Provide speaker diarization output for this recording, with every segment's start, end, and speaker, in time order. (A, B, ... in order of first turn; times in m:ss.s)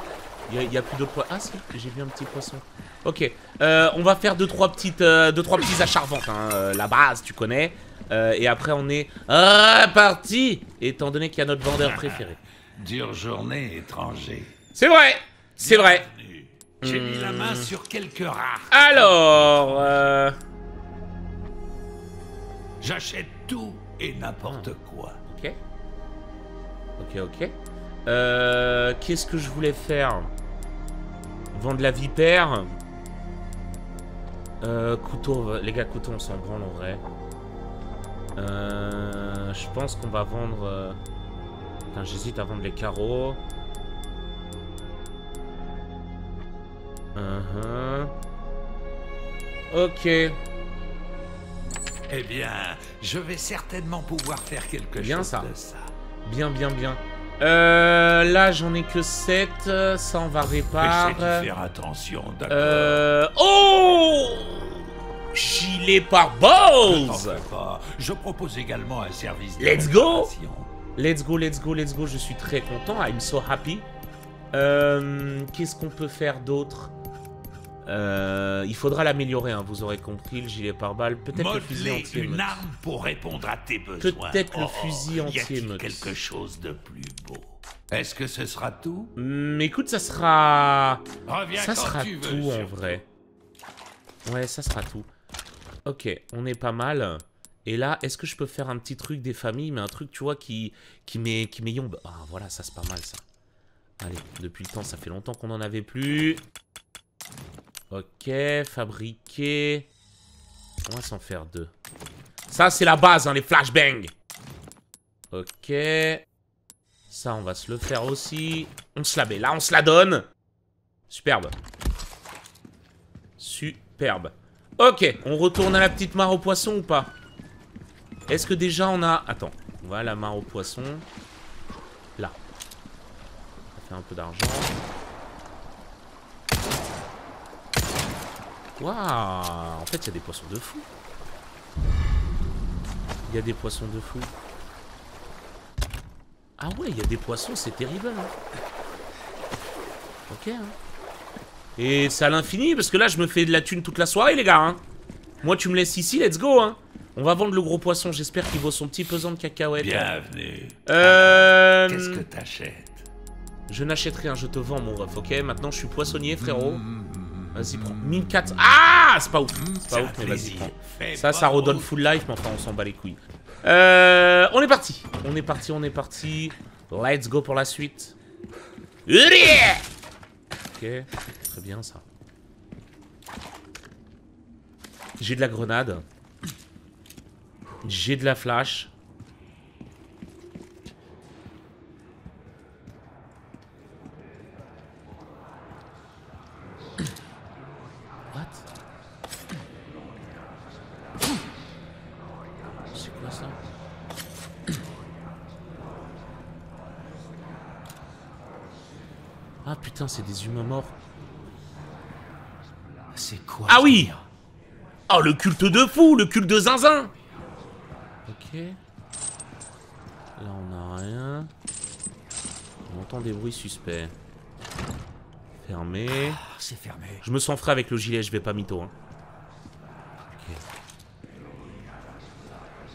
0:00.5-0:12.4 A
0:11.8-0:12.2 B
0:12.8-0:14.6 B
0:14.8-0:16.1 A
0:15.6-0:20.0 B
0:16.8-0:17.7 A
0:18.7-0:20.4 A
0:22.8-0:25.2 B
0:24.4-0:24.7 A
0:25.2-0:25.6 A
0:27.0-0:27.6 A
0:28.1-0:30.3 A
0:31.5-0:32.7 A
0:34.6-0:37.0 A
0:38.4-0:41.0 A
0:41.9-0:43.4 A
0:47.2-0:48.1 A
0:49.7-0:50.4 A
0:52.1-0:55.9 B
0:55.0-0:55.5 A
0:56.2-1:01.5 A
1:00.8-1:03.0 B
1:02.5-1:07.4 A
1:06.9-1:10.7 B
1:09.6-1:10.3 A
1:11.0-1:13.9 A
1:14.5-1:16.9 A
1:17.9-1:22.6 A
1:21.3-1:29.1 B
1:24.0-1:26.1 A
1:29.2-1:33.0 A
1:31.3-1:33.0 B
1:34.3-1:35.1 A
1:35.9-1:43.2 A
1:44.0-1:46.4 A
1:47.9-1:49.9 A
1:50.9-1:51.7 A
1:52.5-1:54.1 A
1:55.3-1:56.2 A
1:57.1-2:00.3 A
2:01.1-2:01.6 A
2:03.4-2:07.1 A
2:08.3-2:11.0 A
2:13.7-2:14.7 A
2:18.8-2:20.9 A
2:23.3-2:24.3 A
2:26.6-2:28.3 A
2:30.3-2:30.8 A
2:31.8-2:34.8 A
2:35.4-2:40.1 A
2:39.8-2:43.0 B
2:40.9-2:42.2 A
2:43.7-2:46.8 A
2:46.4-2:48.7 B
2:47.6-2:58.2 A
2:49.5-2:51.9 B
2:59.1-2:59.8 A
3:00.7-3:02.0 A
3:05.2-3:06.0 A
3:07.8-3:08.9 A
3:18.3-3:18.6 A
3:22.9-3:23.6 A
3:29.6-3:30.9 A
3:33.1-3:34.2 C
3:33.7-3:34.1 A
3:35.1-3:37.1 A
3:38.3-3:38.8 A
3:40.4-3:41.5 A
3:42.9-3:44.1 A
3:45.6-3:46.4 A
3:46.2-3:47.2 C
3:47.2-3:48.9 A
3:50.3-3:50.6 A